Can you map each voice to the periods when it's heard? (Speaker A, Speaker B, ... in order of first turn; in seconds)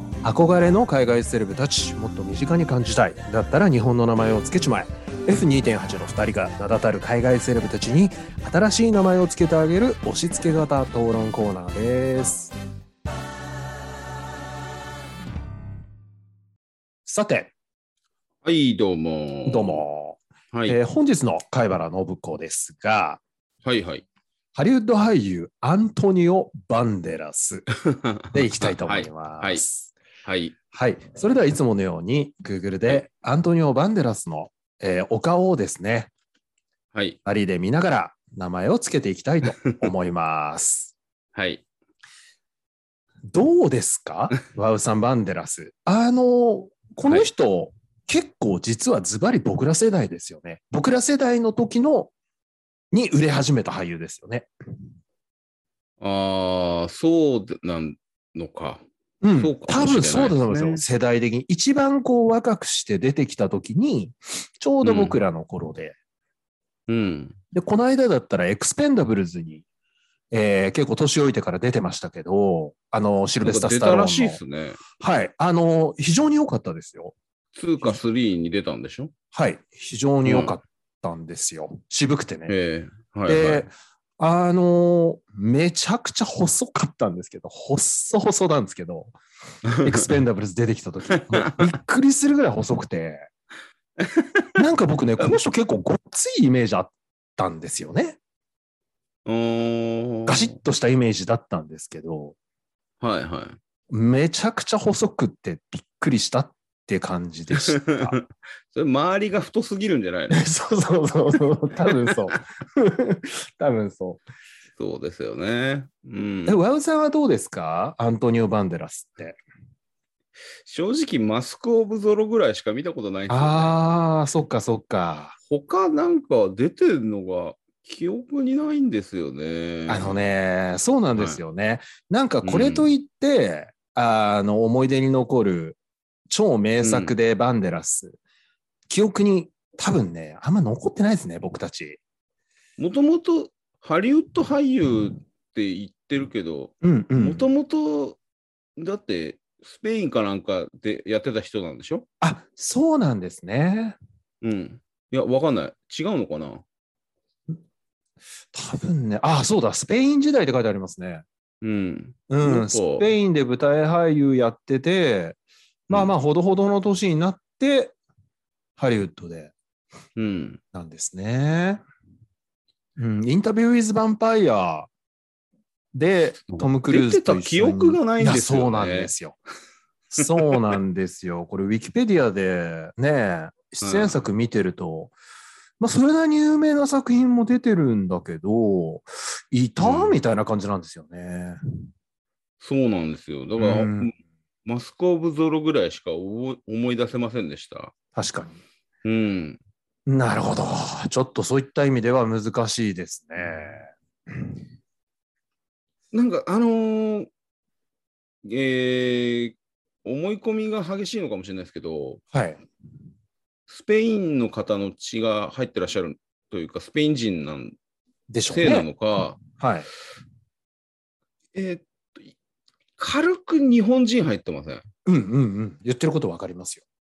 Speaker A: 0.2-12.5, 17.1-17.5, 19.4-23.2, 24.6-27.6, 28.3-29.9, 30.7-36.1, 37.2-40.9, 43.3-52.1, 52.9-54.5, 59.2-66.0, 67.5-69.6, 70.3-74.4, 75.0-77.1, 79.3-82.5, 83.3-89.1, 89.8-93.3, 94.6-98.2, 100.3-102.3, 103.9-108.1, 110.3-114.2, 116.5-119.4, 123.3-125.3, 129.9-135.8, 136.3-138.2, 138.9-142.0, 146.8-147.5, 152.2-153.9, 158.5-161.2, 162.3-167.9, 168.8-169.5, 170.7-171.8, 173.0-174.9, 175.9-179.4, 180.1-185.1, 185.8-191.6, 193.6-194.1, 198.2-198.6, 200.1-203.9, 212.3-212.6, 218.3-218.9, 219.4-219.9, 225.1-226.8
Speaker B: 18.4-19.8, 20.5-20.8, 23.6-24.0, 28.3-29.6, 30.2-30.6, 41.3-41.6, 56.0-58.8, 59.4-60.8, 64.8-65.2, 66.9-67.3, 73.4-74.8, 77.5-79.1, 80.2-80.5, 82.5-83.7, 89.7-90.1, 91.1-91.7, 94.0-94.5, 99.2-100.5, 103.0-103.6, 107.5-110.4, 114.8-116.6, 120.6-123.8, 125.5-130.2, 131.1-131.4, 132.4-132.9, 136.8-137.1, 142.8-148.2, 148.8-152.1, 154.4-156.6, 161.6-163.1, 170.2-170.6, 176.5-179.1, 183.8-184.2, 189.8-190.2, 192.6-194.1, 194.6-197.9, 199.0-199.6, 206.1-207.3, 208.4-212.2, 213.7-217.7, 218.5-219.4, 221.5-222.3, 223.0-224.8